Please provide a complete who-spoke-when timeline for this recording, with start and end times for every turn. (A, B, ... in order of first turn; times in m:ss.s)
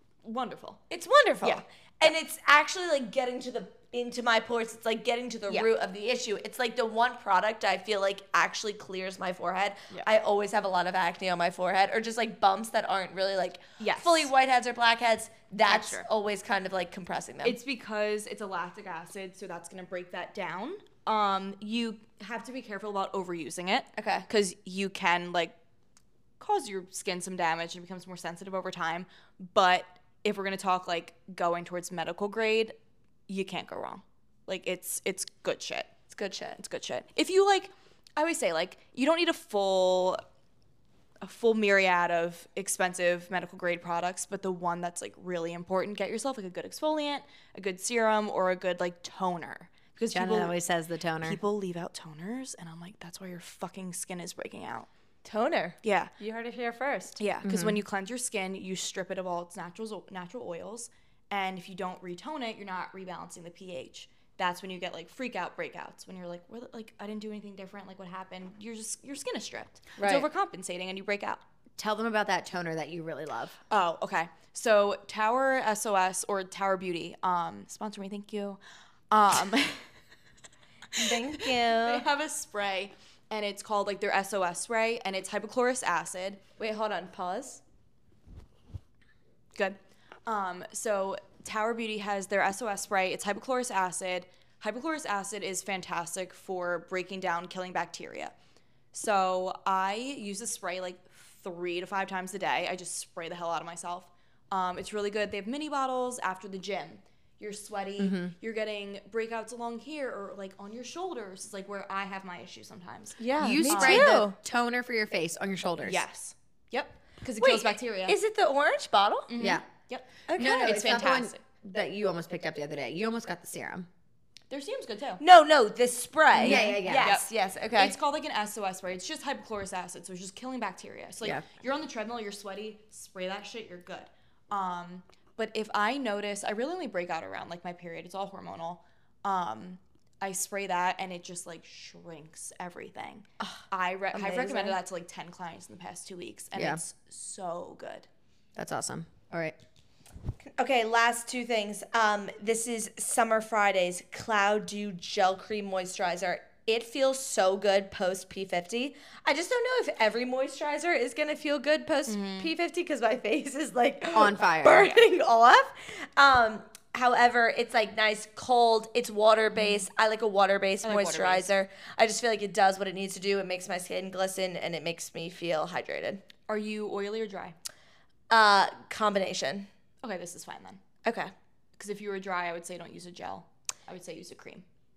0:00.2-0:00.8 A
0:00.9-0:17.6 B
0:13.8-0:14.3 A
0:15.7-0:16.1 A
0:17.4-0:25.6 A
0:24.0-0:24.3 B
0:26.4-0:32.8 A
0:33.3-0:35.9 A
0:36.1-0:36.6 B
0:36.6-0:40.2 A
0:41.2-0:50.6 A
0:50.1-0:51.4 C
0:51.2-0:54.9 A
0:55.2-0:57.2 B
0:55.8-0:56.1 A
0:57.2-1:11.4 A
0:57.4-0:57.8 C
1:10.0-1:10.3 B
1:11.8-1:13.6 C
1:13.7-1:18.6 A
1:19.1-1:19.9 A
1:21.0-1:22.1 B
1:21.0-1:26.4 A
1:26.6-1:27.6 B
1:29.6-1:38.3 A
1:38.9-1:54.2 A
1:48.0-1:48.3 C
1:53.2-1:54.4 B
1:53.4-1:56.0 C
1:55.8-1:58.2 A
1:57.4-1:59.3 B
1:59.3-2:01.4 A
2:00.3-2:00.8 B
2:00.4-2:03.9 C
2:04.5-2:05.2 A
2:05.2-2:08.0 B
2:06.4-2:07.2 C
2:06.4-2:28.1 A
2:24.1-2:24.8 B
2:26.6-2:26.8 C
2:28.6-2:29.6 C
2:30.4-2:56.2 B
2:42.1-2:42.5 A
2:44.1-2:45.0 C
2:50.8-2:51.5 A
2:56.5-2:57.6 A
2:58.3-2:59.7 B
3:00.0-3:00.8 A
3:01.0-3:01.3 B
3:01.8-3:04.6 A